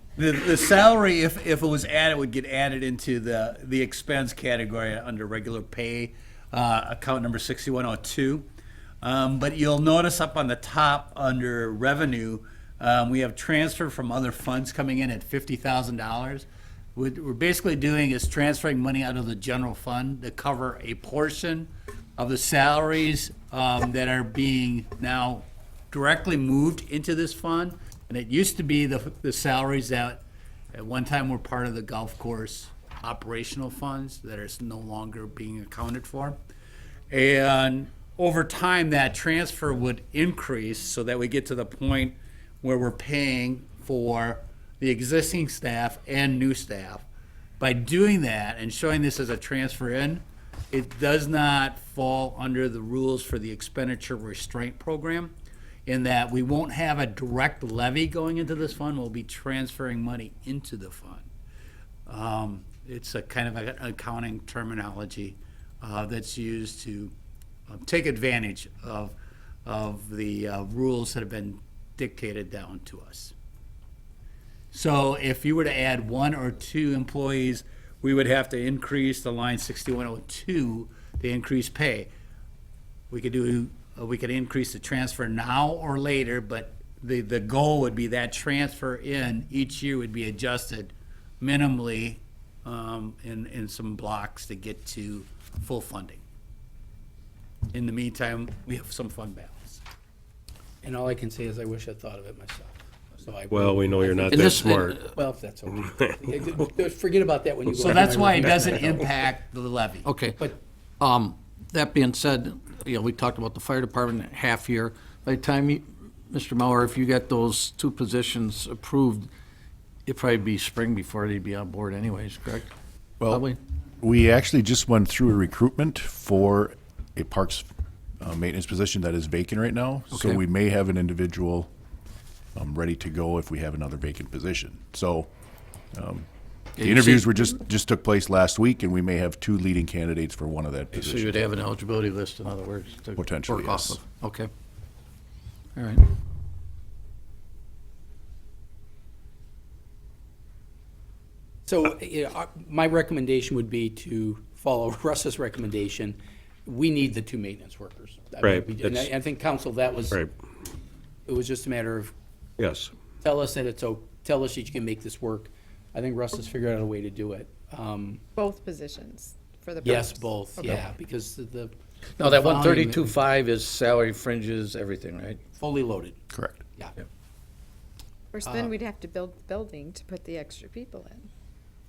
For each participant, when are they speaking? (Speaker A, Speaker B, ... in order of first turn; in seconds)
Speaker A: 0.2-8.5, 9.0-30.2, 30.7-36.4, 37.1-47.1, 47.6-55.3, 55.9-61.3, 62.1-67.1, 67.7-73.3, 74.7-82.1, 83.1-96.2, 97.7-99.8, 107.8-110.1
Speaker B: 100.8-109.0, 151.7-160.2, 161.3-162.1, 163.2-168.2, 169.8-173.1, 175.6-176.2, 178.5-178.7
Speaker C: 103.5-105.0, 158.4-159.1, 162.6-162.9
Speaker D: 104.3-105.0, 110.0-110.5, 111.0-119.3, 120.1-122.7, 123.3-123.6, 130.2-130.4, 136.8-137.3, 140.9-144.5, 145.8-146.0, 172.2-175.4
Speaker E: 123.2-123.5, 124.0-127.7, 128.2-131.7, 132.6-135.3, 135.9-141.3, 143.2-144.0, 176.3-176.6
Speaker F: 168.4-170.8, 178.3-181.3